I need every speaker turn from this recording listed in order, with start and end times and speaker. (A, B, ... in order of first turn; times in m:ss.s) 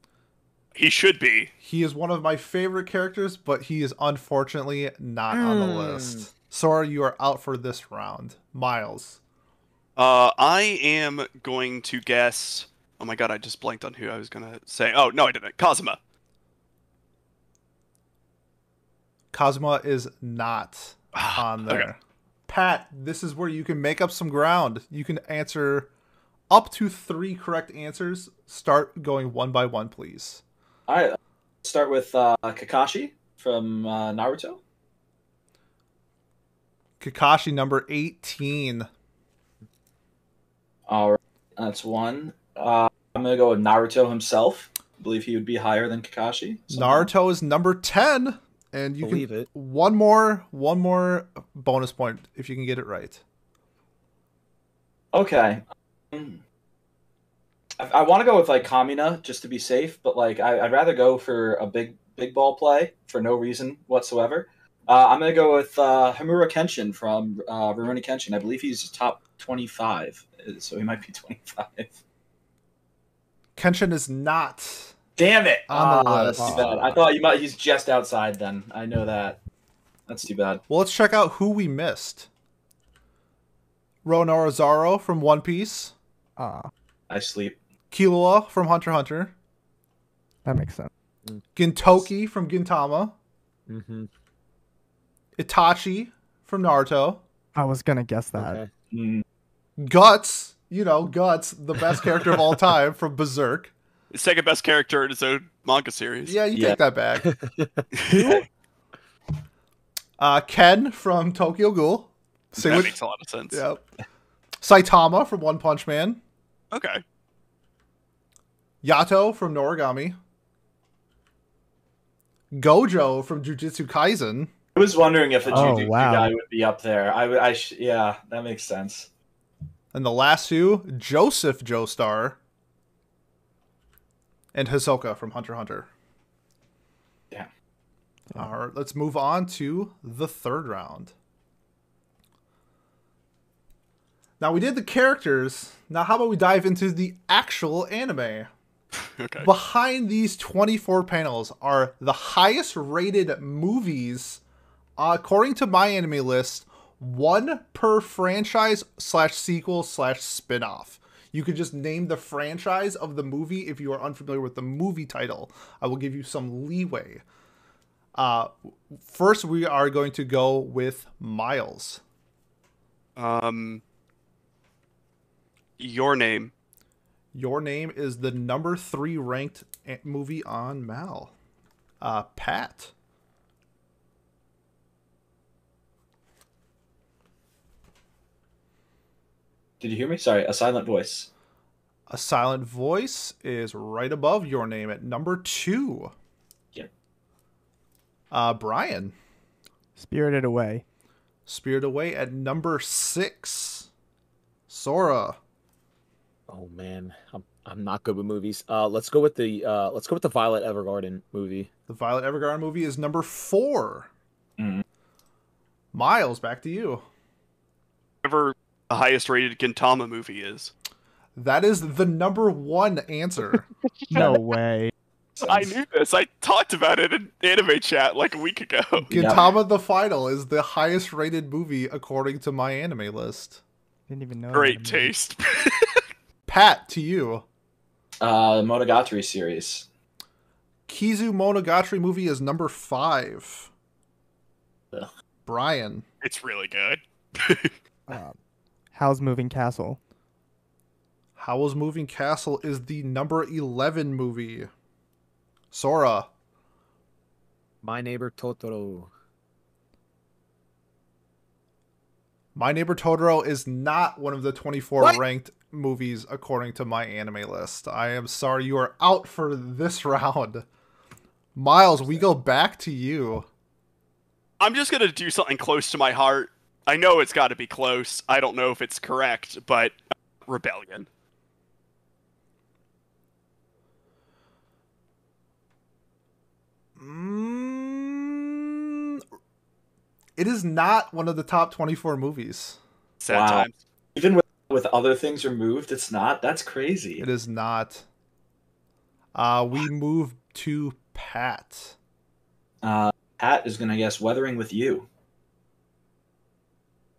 0:00.8-0:01.5 A
0:01.6-0:09.2 B
0:05.3-0:06.3 C
0:10.0-0:16.0 A
0:19.3-0:25.9 B
0:21.2-0:21.9 A
0:26.5-0:30.4 B
0:30.9-0:34.6 D
0:37.0-0:38.9 B
0:40.9-0:47.1 D
0:46.7-0:53.2 B
0:49.0-0:49.5 C
0:55.1-0:56.4 D
0:57.8-1:11.9 D
1:13.6-1:15.0 B
1:15.2-1:19.4 D
1:15.7-1:16.8 B
1:16.4-1:16.7 C
1:20.1-1:20.6 D
1:20.7-1:22.3 B
1:24.0-1:25.9 B
1:26.4-1:26.7 E
1:27.1-1:27.6 D
1:27.9-1:29.3 B
1:30.4-1:30.9 E
1:31.6-1:33.1 B
1:33.7-1:34.1 C
1:35.4-1:37.2 B
1:37.6-1:38.6 E
1:38.3-1:38.7 C
1:38.9-1:39.2 D
1:39.8-1:43.7 B
1:44.1-1:46.4 A
1:46.2-1:47.3 B
1:47.3-1:47.7 C
1:48.0-1:48.4 A
1:50.2-1:53.0 B
1:52.6-1:53.6 A
1:53.5-1:53.8 B
1:54.6-1:56.2 B
1:56.7-1:57.0 A
1:58.8-2:00.2 B
2:02.5-2:04.5 B
2:04.8-2:09.1 D
2:05.5-2:05.8 C
2:05.5-2:06.4 E
2:09.9-2:12.4 B
2:14.5-2:15.9 B
2:18.3-2:21.1 B
2:24.4-2:28.5 B
2:29.2-2:29.5 A
2:29.4-2:34.4 B
2:35.0-2:47.2 B
2:48.2-2:52.0 B
2:53.2-2:53.8 A
2:55.8-2:56.5 A
2:57.3-3:01.3 B
3:02.0-3:02.9 B
3:09.8-3:11.3 D
3:12.1-3:16.1 B
3:18.3-3:19.1 B
3:20.0-3:20.8 E
3:21.5-3:23.9 B
3:24.7-3:25.4 B
3:26.5-3:31.7 C
3:31.9-3:34.1 B
3:34.6-3:34.8 D
3:35.9-3:37.0 B
3:38.2-3:40.7 A
3:41.4-3:43.7 B
3:44.1-3:44.9 E
3:44.1-3:44.4 A
3:45.4-3:45.8 D
3:45.4-3:49.1 A
3:49.1-3:53.6 B
3:49.1-3:49.5 D
3:54.1-3:55.1 E
3:54.5-3:56.0 A
3:56.5-3:57.4 B
3:58.2-3:59.9 D
4:00.9-4:03.7 B
4:05.5-4:06.0 B
4:06.2-4:07.7 A
4:08.1-4:08.4 E
4:08.9-4:10.0 E
4:11.4-4:14.7 B
4:15.7-4:16.3 B
4:17.8-4:19.1 C
4:22.6-4:30.6 B
4:31.6-4:33.5 B
4:34.6-4:40.0 A
4:40.5-4:41.1 A
4:47.0-4:49.2 B
4:50.4-4:52.8 B
4:53.2-4:53.7 A
4:53.3-4:57.2 D
4:57.2-4:58.0 B
4:59.4-5:02.0 B
5:02.8-5:05.1 D